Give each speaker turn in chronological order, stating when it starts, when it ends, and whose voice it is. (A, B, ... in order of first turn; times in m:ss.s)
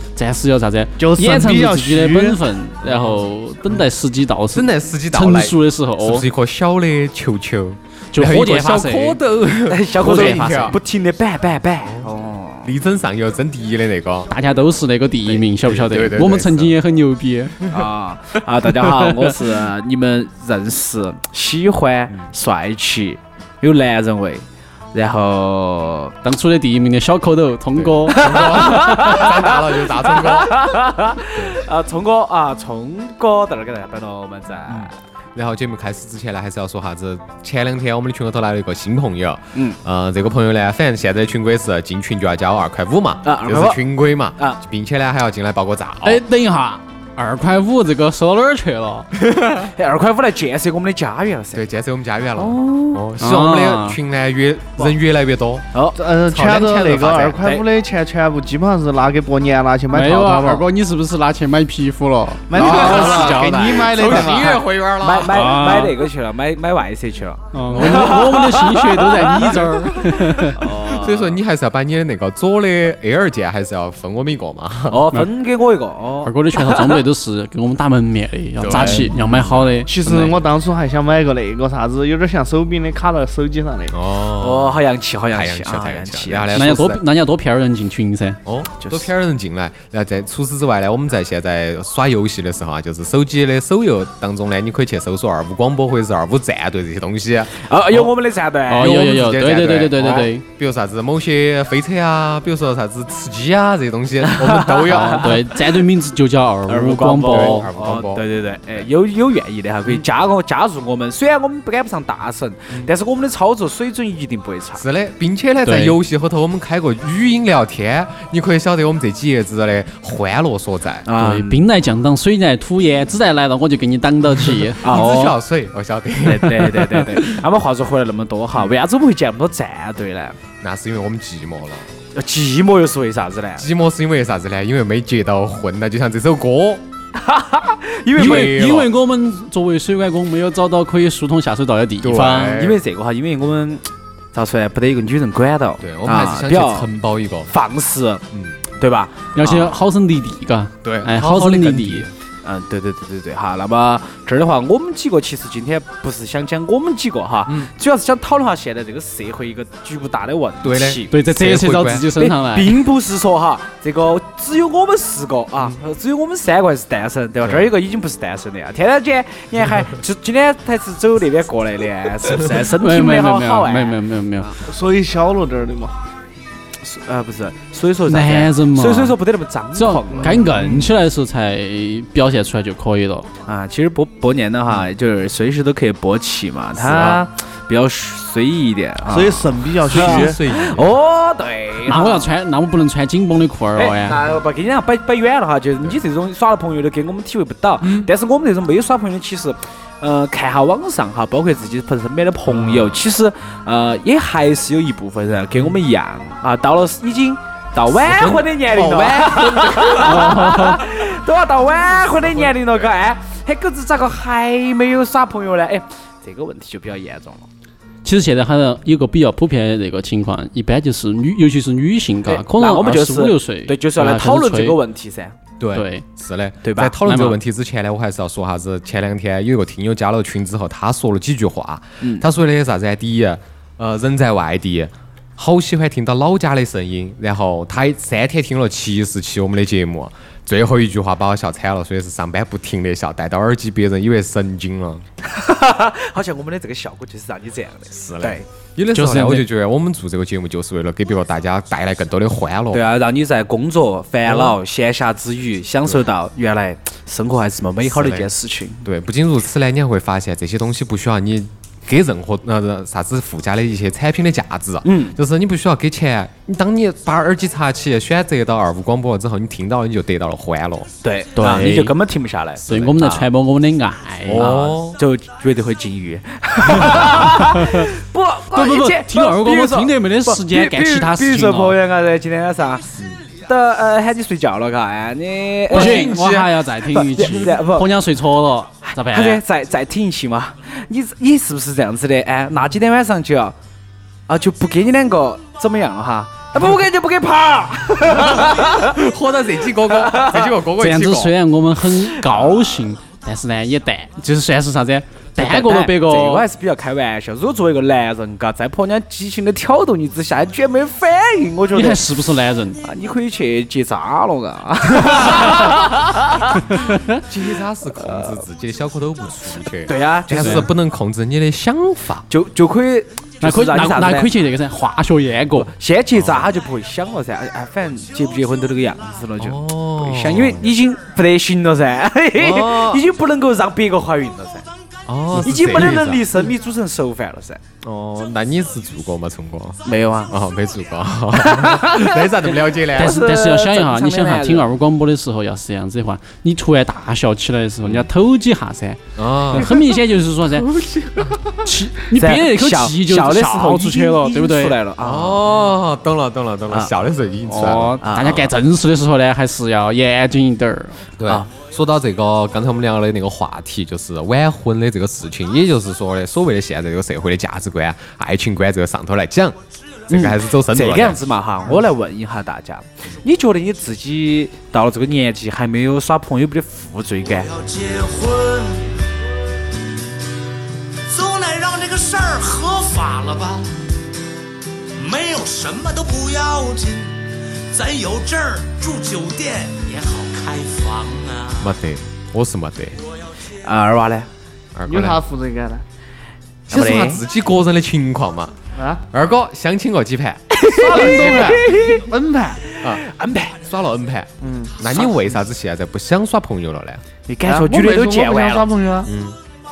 0:00.1-0:06.3 A
0:01.0-0:02.4 B
0:02.8-0:03.8 C
0:04.5-0:10.8 C
0:08.1-0:09.2 A
0:09.7-0:12.7 D
0:10.0-0:10.8 A
0:12.6-0:14.3 C
0:14.3-0:17.6 A
0:15.2-0:16.7 C
0:17.6-0:17.9 C
0:17.7-0:26.1 D
0:26.2-0:29.2 A
0:27.8-0:30.6 C
0:28.1-0:34.9 D
0:34.7-0:46.2 C
0:43.2-0:43.8 D
0:46.0-0:49.1 A
0:49.2-0:49.7 C
0:49.6-0:51.6 D
0:51.5-0:55.6 C
0:52.4-0:53.0 D
0:53.2-0:54.0 A
0:55.7-0:56.0 D
0:55.9-1:00.6 B
0:56.2-0:57.4 C
0:57.3-0:57.6 D
0:59.9-1:04.4 A
1:02.5-1:04.6 B
1:02.5-1:05.8 C
1:05.0-1:09.7 D
1:05.3-1:06.0 A
1:07.5-1:10.6 A
1:07.7-1:08.2 C
1:09.6-1:15.1 C
1:10.4-1:11.4 D
1:14.9-1:17.0 D
1:16.2-1:19.9 A
1:18.6-1:19.7 C
1:18.7-1:19.0 D
1:19.9-1:23.9 B
1:23.9-1:24.8 C
1:24.4-1:26.8 D
1:25.3-1:27.0 C
1:26.5-1:28.4 A
1:28.4-1:38.1 C
1:28.8-1:29.1 D
1:37.6-1:39.0 D
1:38.7-1:40.4 A
1:38.8-1:45.5 C
1:40.0-1:40.3 D
1:44.2-1:45.6 D
1:44.8-1:47.7 A
1:46.7-1:54.8 D
1:47.2-1:48.2 C
1:54.8-2:01.1 C
1:55.6-1:56.0 A
2:01.0-2:01.6 D
2:01.2-2:05.3 A
2:04.8-2:06.9 C
2:04.8-2:05.3 D
2:06.2-2:10.4 D
2:06.6-2:07.0 A
2:10.6-2:11.9 C
2:12.1-2:13.6 D
2:13.6-2:16.8 C
2:17.1-2:18.6 D
2:18.1-2:18.9 C
2:18.2-2:22.6 A
2:22.0-2:22.8 C
2:22.5-2:26.9 D
2:25.8-2:27.5 C
2:27.5-2:28.2 D
2:28.7-2:29.5 D
2:29.4-2:32.0 A
2:29.4-2:29.7 C
2:30.8-2:32.1 C
2:32.4-2:41.1 D
2:40.6-2:42.2 C
2:41.1-2:42.8 A
2:42.2-2:54.6 D
2:47.4-2:47.7 C
2:52.6-2:54.5 A
2:54.6-2:55.9 B
2:56.8-3:00.5 D
2:58.1-2:59.2 A
2:59.7-3:03.3 A
3:00.4-3:00.9 C
3:03.4-3:12.3 D
3:06.8-3:07.2 C
3:09.1-3:10.4 B
3:09.9-3:11.0 C
3:11.8-3:14.2 A
3:13.8-3:37.5 D
3:17.8-3:18.1 C
3:22.5-3:23.0 C
3:28.0-3:28.5 C
3:28.7-3:30.0 B
3:29.2-3:30.2 C
3:29.9-3:30.8 A
3:38.0-3:44.8 A
3:42.3-3:45.3 D
3:45.6-4:05.0 C
3:45.7-3:46.0 A
3:46.6-3:47.0 D
3:47.0-3:47.4 A
4:05.2-4:08.4 D
4:07.9-4:12.8 C
4:08.9-4:09.4 A
4:12.7-4:18.8 D
4:14.2-4:14.6 C
4:17.9-4:18.3 C
4:18.8-4:30.9 C
4:24.8-4:25.2 D
4:31.0-4:32.6 D
4:31.3-4:32.0 A
4:32.6-4:33.3 C
4:32.7-4:34.5 A
4:34.2-4:35.0 C
4:34.3-4:46.1 D
4:37.5-4:37.9 A
4:38.5-4:41.8 A
4:45.7-4:47.3 C
4:45.7-4:49.4 A
4:46.9-4:47.9 D
4:49.1-4:53.6 D
4:54.3-4:59.0 D
4:58.1-5:01.3 C
4:59.9-5:00.5 D
5:00.8-5:06.4 A
5:05.4-5:12.1 D
5:11.7-5:12.8 A
5:12.8-5:16.5 D
5:16.7-5:17.2 A
5:17.2-5:22.3 C
5:18.0-5:18.4 D
5:19.9-5:20.7 D
5:20.4-5:20.6 A
5:22.3-5:24.3 D
5:23.4-5:25.7 A
5:25.5-5:34.7 D
5:26.1-5:26.5 C
5:29.4-5:30.7 C
5:32.4-5:33.0 C
5:35.1-5:36.4 C
5:35.3-5:37.6 D
5:37.8-5:43.2 C
5:39.8-5:40.4 D
5:41.4-5:44.7 D
5:42.9-5:50.7 A
5:47.8-5:48.1 C
5:49.2-5:49.8 C
5:50.5-5:51.7 C
5:51.6-5:54.8 A
5:52.1-5:55.4 D
5:55.0-5:58.5 C
5:56.7-5:56.9 D
5:57.5-6:01.0 A
5:58.0-5:58.4 D
6:01.2-6:09.6 C
6:10.1-6:11.2 C
6:10.1-6:17.9 D
6:17.7-6:18.9 E
6:21.1-6:23.7 E
6:21.2-6:22.4 D
6:25.0-6:31.4 E
6:25.2-6:26.7 D
6:27.7-6:29.4 D
6:30.3-6:31.1 D
6:31.6-6:33.0 C
6:33.6-6:34.3 D
6:34.7-6:35.2 C
6:34.9-6:35.8 B
6:36.7-6:38.5 C
6:36.7-6:37.2 D
6:38.8-6:39.0 B
6:39.1-6:41.6 C
6:40.5-6:42.0 D
6:40.7-6:42.6 B
6:42.7-6:43.6 D
6:43.6-6:47.0 C
6:44.4-6:44.7 B
6:44.9-6:45.2 D
6:47.3-6:48.7 D
6:47.4-6:49.1 B
6:49.0-6:49.4 C